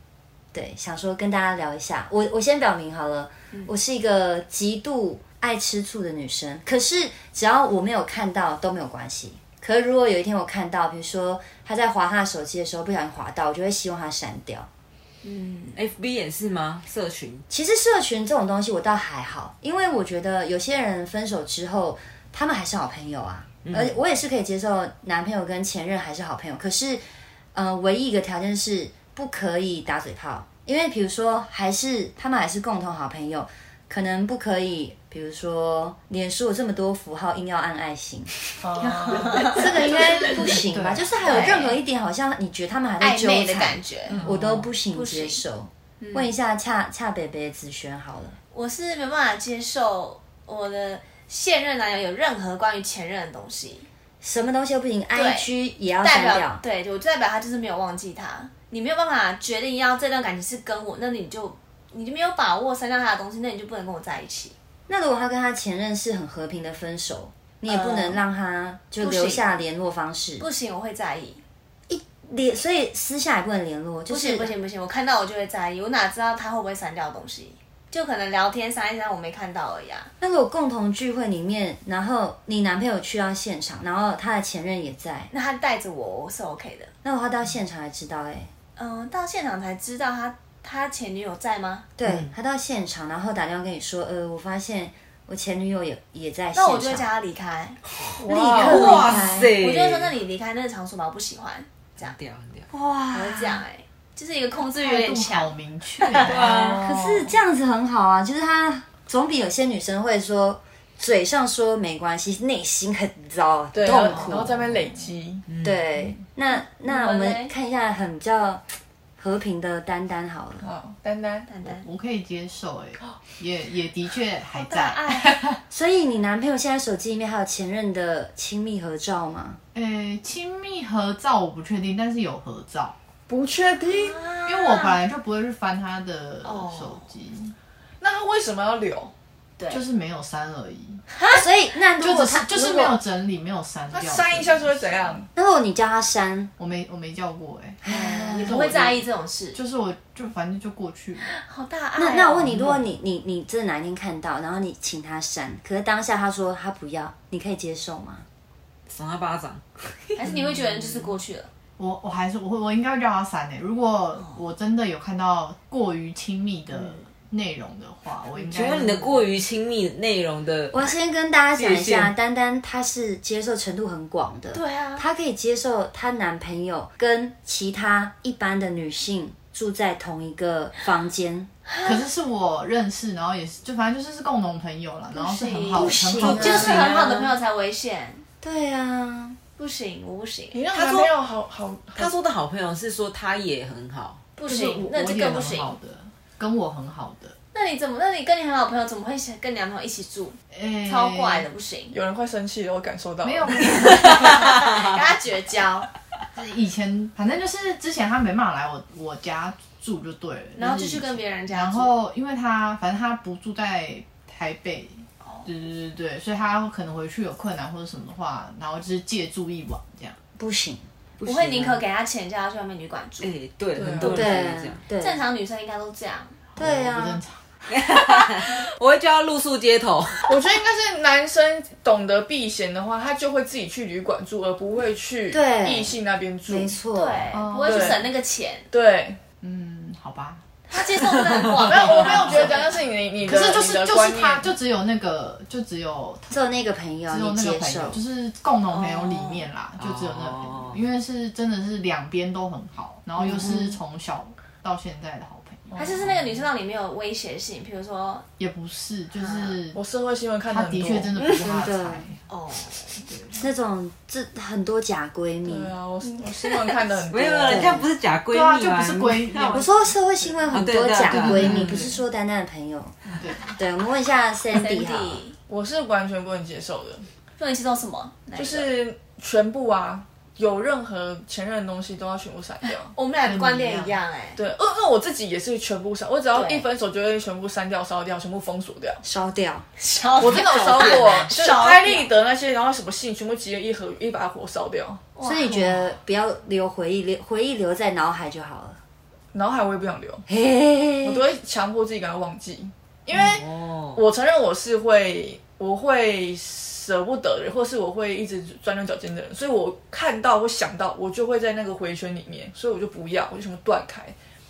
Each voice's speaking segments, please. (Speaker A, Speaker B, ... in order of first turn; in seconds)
Speaker A: 0.5-14.7, 17.5-48.4, 54.2-56.6, 64.9-70.5, 71.9-74.5, 80.2-85.3, 87.0-88.5, 92.0-97.1, 98.3-99.5, 102.7-103.6, 106.5-114.7, 115.6-118.6, 119.2-120.7, 125.7-129.6, 141.4-143.0, 145.3-146.5, 147.8-148.7, 152.0-158.2, 170.7-181.5, 185.8-186.8, 188.4-189.4, 220.4-220.8, 224.0-225.2, 226.6-227.2, 235.3-236.0, 236.5-237.4, 246.3-248.0, 253.2-253.7, 261.5-262.1, 263.3-265.7, 267.4-267.9, 269.5-275.2, 289.0-289.7, 295.2-298.8, 300.3-301.2
Speaker B: 15.2-15.8, 41.2-41.8, 43.0-44.3, 44.9-45.4, 46.0-46.3, 48.5-53.9, 55.1-55.5, 56.0-64.5, 67.7-68.2, 69.0-69.4, 70.4-71.4, 74.1-80.1, 85.3-86.9, 88.8-91.9, 96.5-97.8, 98.6-102.2, 103.1-106.4, 116.5-117.5, 121.5-121.9, 124.6-125.4, 133.9-135.0, 136.4-137.1, 141.1-141.5, 147.9-149.6, 151.2-152.5, 160.2-161.5, 174.5-175.0, 181.7-182.1, 185.1-188.2, 189.6-190.6, 194.4-195.7, 197.5-202.0, 203.6-205.9, 210.6-211.9, 215.2-215.5, 221.2-223.3, 225.0-226.4, 236.9-238.7, 240.7-242.8, 248.7-249.5, 255.8-258.2, 259.2-259.6, 262.3-263.0, 266.0-266.8, 274.5-275.4, 277.4-278.7, 282.9-284.4, 286.3-286.7, 289.8-292.1, 295.1-295.9
Speaker C: 15.8-17.4, 23.6-24.0, 92.0-92.3, 98.6-100.1, 102.0-102.7, 106.2-106.8, 115.5-115.8, 158.9-160.2, 168.5-170.9, 171.6-172.1, 186.2-187.3, 190.7-191.1, 192.0-194.2, 221.2-221.8, 223.2-224.8, 227.7-230.3, 249.8-250.8, 267.1-269.5, 270.5-271.7, 303.1-304.0
Speaker D: 38.6-40.0, 44.1-44.5, 98.2-99.0, 106.3-107.3, 113.7-115.5, 120.6-121.5, 133.3-134.2, 138.0-139.1, 143.9-145.3, 190.5-192.1, 201.9-203.8, 223.8-224.3, 230.3-236.8, 237.7-238.0, 238.7-239.4, 241.6-244.6, 255.7-256.0, 259.7-261.3, 265.4-267.8, 275.5-277.1, 278.4-282.9, 284.4-289.0, 290.2-295.1, 299.3-300.2, 301.0-314.1
Speaker E: 40.2-41.3, 104.7-106.7, 121.6-125.6, 129.7-133.0, 134.5-137.6, 139.7-141.0, 142.0-144.7, 146.6-151.3, 152.4-152.8, 160.2-161.0, 161.8-169.2, 181.8-186.9, 194.4-197.3, 200.5-201.5, 203.2-204.5, 206.3-220.2, 226.6-227.4, 237.3-238.0, 239.4-240.4, 240.9-242.5, 243.2-246.3, 247.1-256.2, 258.4-259.8, 260.5-262.2, 262.9-263.4, 268.3-270.6, 271.1-272.0, 273.2-273.6, 283.2-284.0